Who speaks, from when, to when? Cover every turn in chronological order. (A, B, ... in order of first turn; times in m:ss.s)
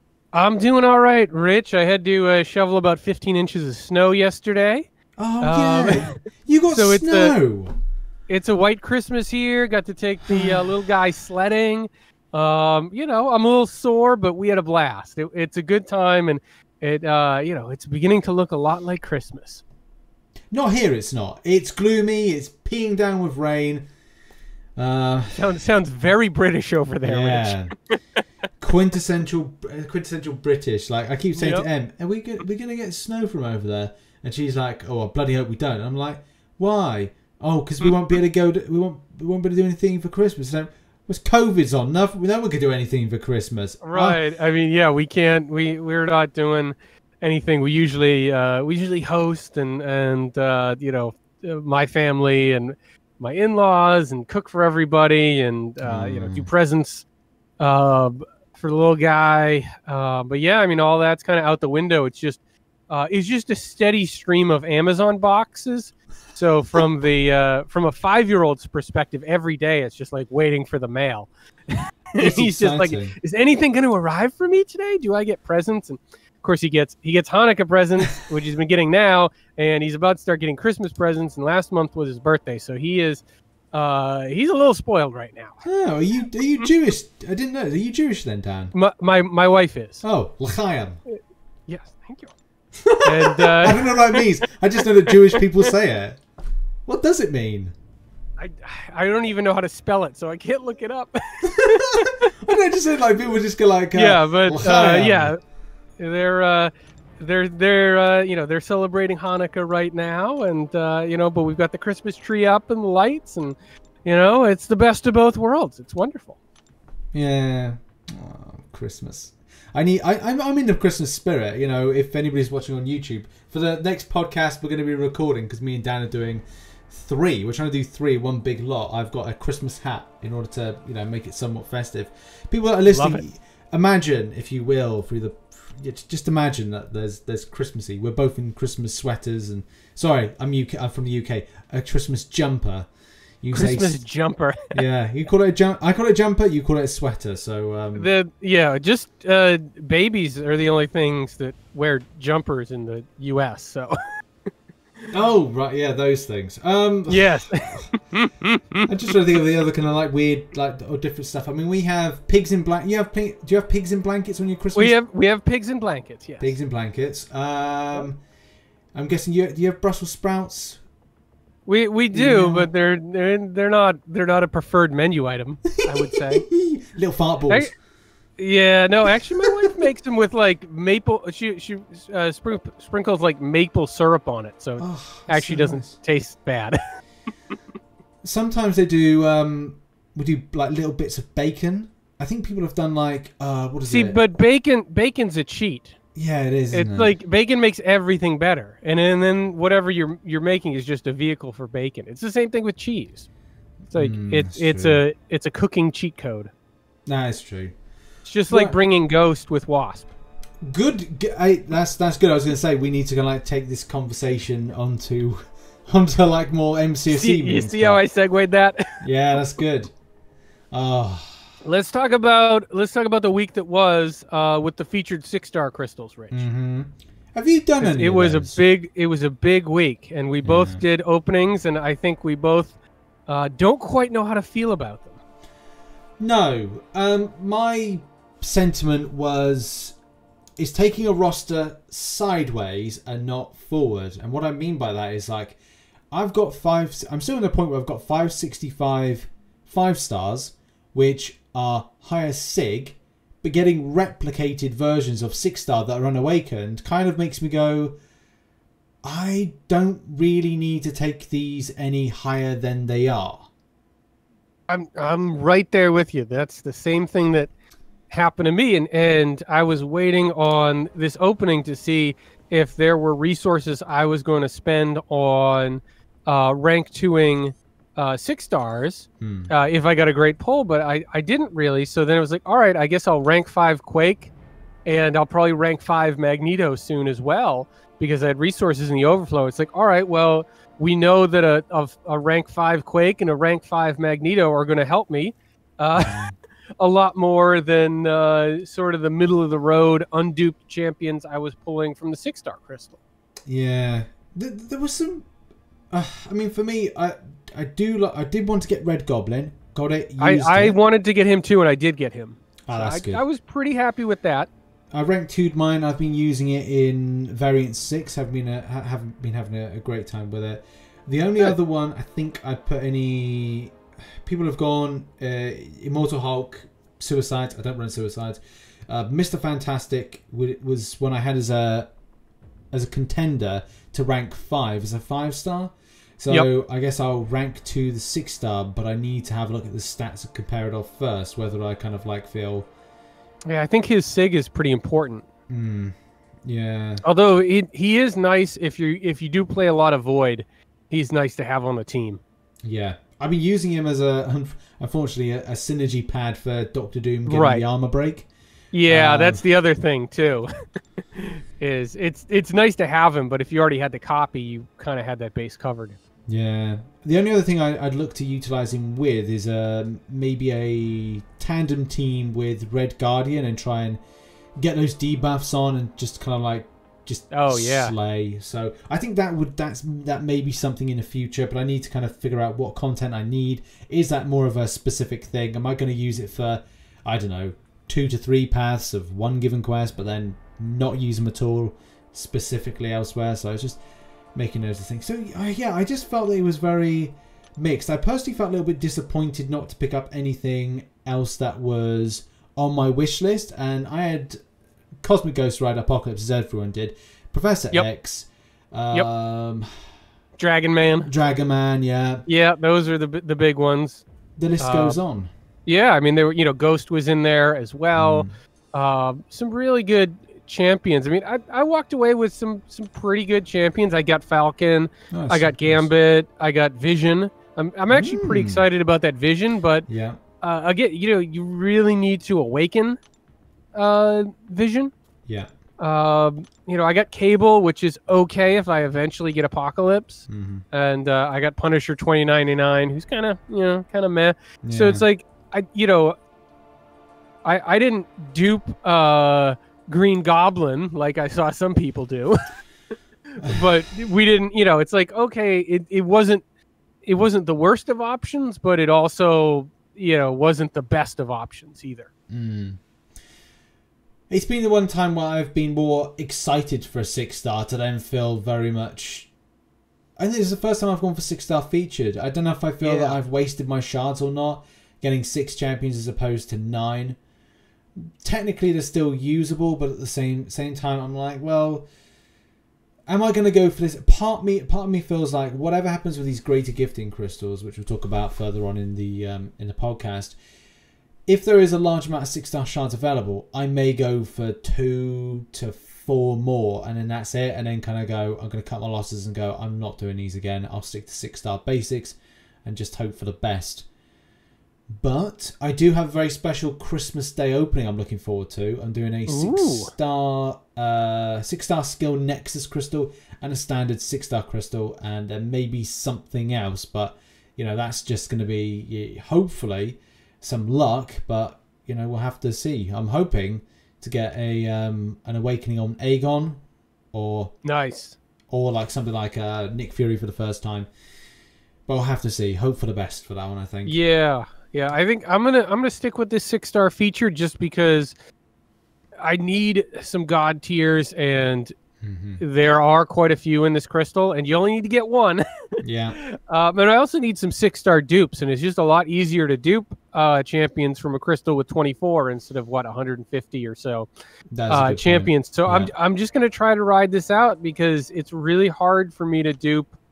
0:00.3-0:04.9 A
0:05.2-0:07.7 B
0:05.4-0:06.2 A
0:06.7-0:07.3 A
0:08.3-0:19.6 A
0:10.3-0:10.7 B
0:20.5-0:23.8 B
0:24.8-0:25.5 B
0:25.3-0:28.0 A
0:27.0-0:27.7 B
0:28.6-0:44.2 B
0:31.4-0:31.6 A
0:43.8-0:57.0 A
0:55.8-0:56.5 B
0:57.6-1:25.6 A
1:12.2-1:13.2 B
1:25.6-1:28.7 B
1:28.7-1:30.0 A
1:30.0-1:31.0 B
1:31.1-1:32.3 A
1:32.8-1:36.2 B
1:33.0-1:34.3 A
1:36.9-1:37.7 B
1:38.4-1:42.3 A
1:41.4-1:45.3 B
1:43.9-1:45.4 A
1:46.0-1:56.4 A
1:57.1-2:22.9 B
2:12.9-2:13.2 A
2:23.4-2:24.0 B
2:23.5-2:24.8 A
2:24.7-2:28.1 B
2:27.9-2:34.0 A
2:35.1-2:37.9 B
2:37.1-2:38.8 A
2:38.8-2:45.0 B
2:44.7-2:46.5 A
2:46.4-2:48.2 B
2:48.9-2:50.8 B
2:51.6-2:56.4 A
2:52.1-2:52.7 B
2:55.7-2:57.7 B
2:58.4-3:06.8 A
3:04.8-3:06.0 B
3:08.2-3:14.2 B
3:13.9-3:16.0 A
3:16.1-3:17.1 B
3:16.7-3:23.3 A
3:23.9-3:25.0 B
3:23.9-3:26.5 A
3:27.1-3:27.7 B
3:28.2-3:30.1 A
3:28.5-3:28.8 B
3:30.6-3:38.0 B
3:37.1-3:39.0 A
3:39.0-3:39.9 B
3:40.7-3:41.5 B
3:41.6-3:46.4 A
3:46.3-3:48.6 B
3:47.8-3:52.7 A
3:50.4-3:50.8 B
3:53.3-3:55.2 A
3:56.2-4:00.0 B
4:00.6-4:05.6 B
4:06.1-4:17.9 B
4:19.0-4:23.5 B
4:24.7-4:27.5 A
4:28.1-4:44.3 A
4:39.2-4:39.5 B
4:44.8-4:56.2 A
4:56.0-4:56.3 B
4:56.8-5:03.0 A
5:03.5-5:05.3 B
5:05.9-5:10.8 B
5:10.2-5:14.5 A
5:12.6-5:13.2 B
5:14.9-5:31.9 B
5:32.7-5:42.7 B
5:43.4-5:45.2 A
5:45.5-5:45.9 B
5:46.4-5:47.0 B
5:47.0-5:52.2 A
5:52.6-5:58.3 B
5:57.3-5:57.6 A
5:58.7-6:00.5 A
5:58.9-5:59.4 B
6:01.0-6:06.0 A
6:06.3-6:14.0 B
6:14.6-6:33.8 B
6:17.3-6:17.9 A
6:34.3-6:44.4 B
6:45.0-6:49.7 B
6:50.4-6:51.1 A
6:51.0-6:52.2 B
6:52.3-6:54.0 A
6:54.4-6:55.3 B
6:54.6-6:55.0 A
6:55.6-7:09.9 A
6:57.9-6:58.3 B
7:05.1-7:05.9 B
7:07.9-7:08.6 B
7:09.9-7:10.2 B
7:10.4-7:13.0 A
7:13.7-7:14.9 A
7:15.8-7:26.2 A
7:20.3-7:20.6 B
7:24.6-7:25.0 B
7:27.4-7:32.4 A
7:33.3-7:36.4 A
7:37.0-7:42.1 A
7:42.3-7:42.8 B
7:44.3-7:49.3 B
7:50.2-7:57.2 B
7:52.8-7:53.2 A
7:58.2-8:01.8 B
8:03.1-8:10.4 B
8:11.3-8:23.8 B
8:24.9-8:46.6 B
8:29.3-8:29.9 A
8:47.1-8:47.5 B
8:47.6-8:48.2 A
8:48.5-8:50.9 B
8:51.9-8:54.0 B
8:53.8-8:58.1 A
8:59.2-9:01.7 A
9:02.0-9:02.4 B
9:02.4-9:14.1 A
9:05.8-9:06.2 B
9:14.5-9:15.9 B
9:14.7-9:19.9 A